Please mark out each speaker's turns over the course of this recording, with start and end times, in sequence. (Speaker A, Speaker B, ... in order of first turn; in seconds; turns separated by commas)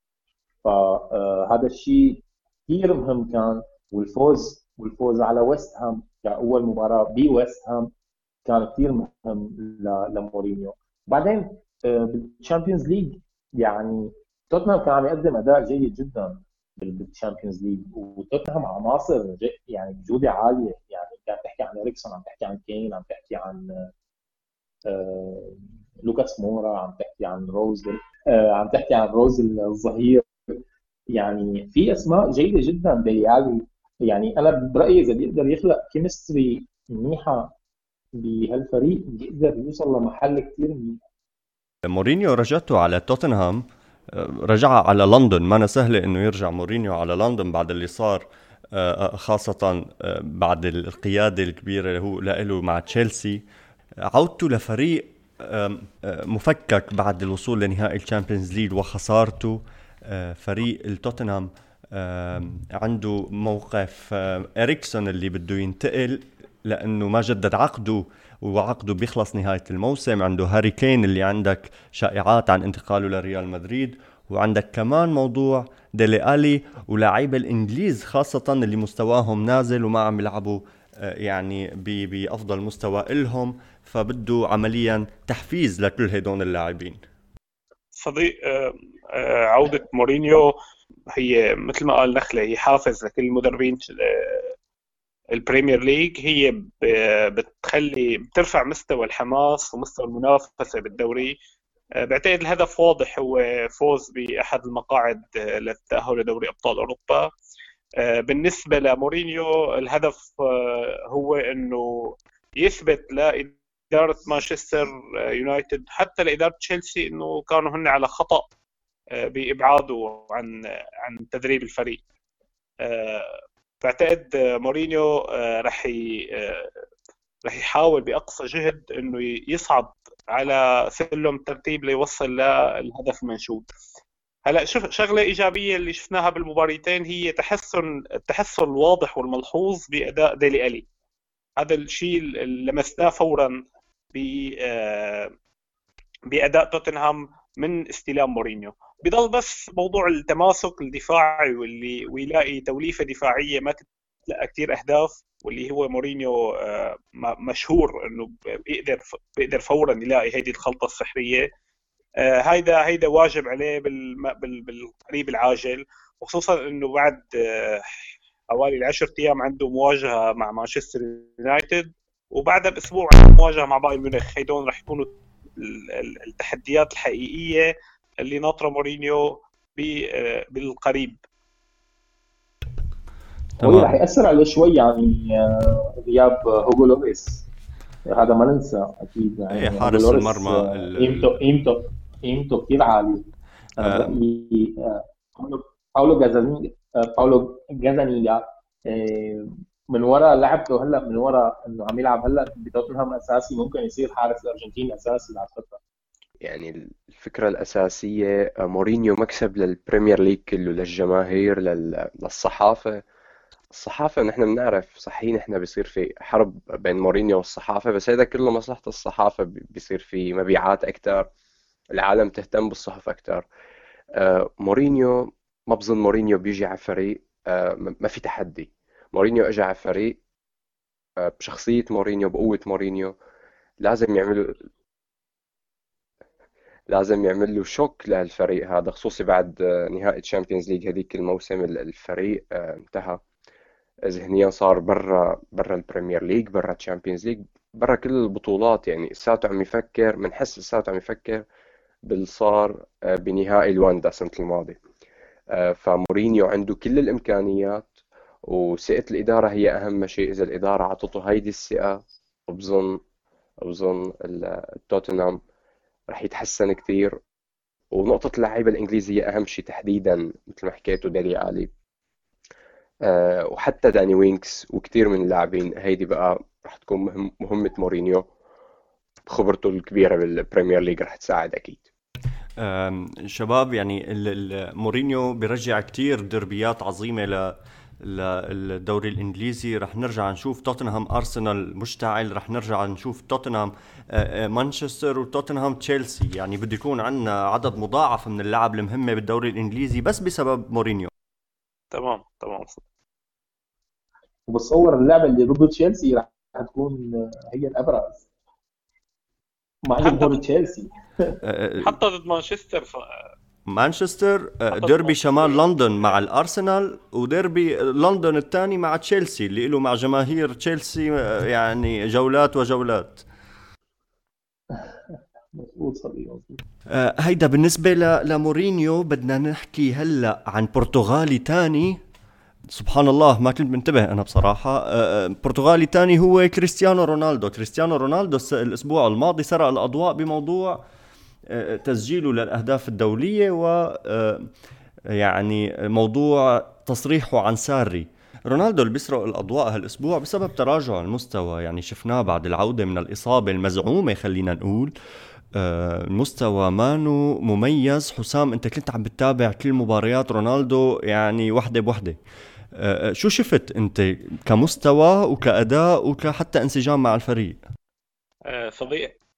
Speaker A: 0.6-7.9, Speaker A: 8.4-23.9, Speaker A: 24.9-30.5, Speaker A: 31.1-37.5, Speaker A: 38.2-41.0, Speaker B: 41.8-53.4, Speaker B: 54.0-87.0, Speaker C: 87.9-90.5, Speaker C: 91.1-94.5, Speaker C: 95.3-101.3, Speaker C: 102.0-107.3, Speaker C: 108.0-118.5, Speaker C: 119.1-122.0, Speaker C: 122.8-126.7, Speaker C: 127.4-133.8, Speaker C: 134.4-140.8, Speaker C: 141.6-143.6, Speaker C: 144.1-145.3, Speaker C: 146.3-161.5, Speaker C: 162.2-167.9, Speaker C: 168.5-181.2, Speaker B: 183.6-183.9, Speaker A: 183.6-187.4, Speaker A: 188.1-193.2, Speaker B: 189.5-191.4, Speaker A: 193.8-205.8, Speaker B: 193.8-194.2, Speaker D: 206.4-213.0, Speaker D: 213.7-221.3, Speaker D: 221.9-223.4, Speaker D: 224.2-230.2, Speaker D: 231.2-233.1, Speaker D: 233.8-234.6, Speaker D: 236.9-243.2, Speaker D: 244.1-251.4, Speaker D: 252.1-254.8, Speaker D: 255.5-257.9, Speaker D: 258.5-263.0, Speaker D: 263.6-265.4, Speaker D: 266.1-267.1, Speaker D: 267.9-271.7, Speaker D: 273.0-278.2, Speaker D: 279.3-281.8, Speaker B: 282.6-301.1, Speaker C: 301.9-302.8, Speaker A: 304.5-308.3, Speaker A: 309.8-311.3, Speaker C: 310.0-310.4, Speaker B: 311.4-312.0, Speaker C: 311.8-313.3, Speaker B: 313.6-323.2, Speaker C: 314.7-315.6, Speaker A: 324.7-326.6, Speaker B: 326.9-332.0, Speaker B: 332.7-340.8, Speaker B: 341.5-344.5, Speaker B: 345.1-354.9, Speaker B: 355.5-362.2, Speaker B: 362.7-367.6, Speaker C: 368.4-369.1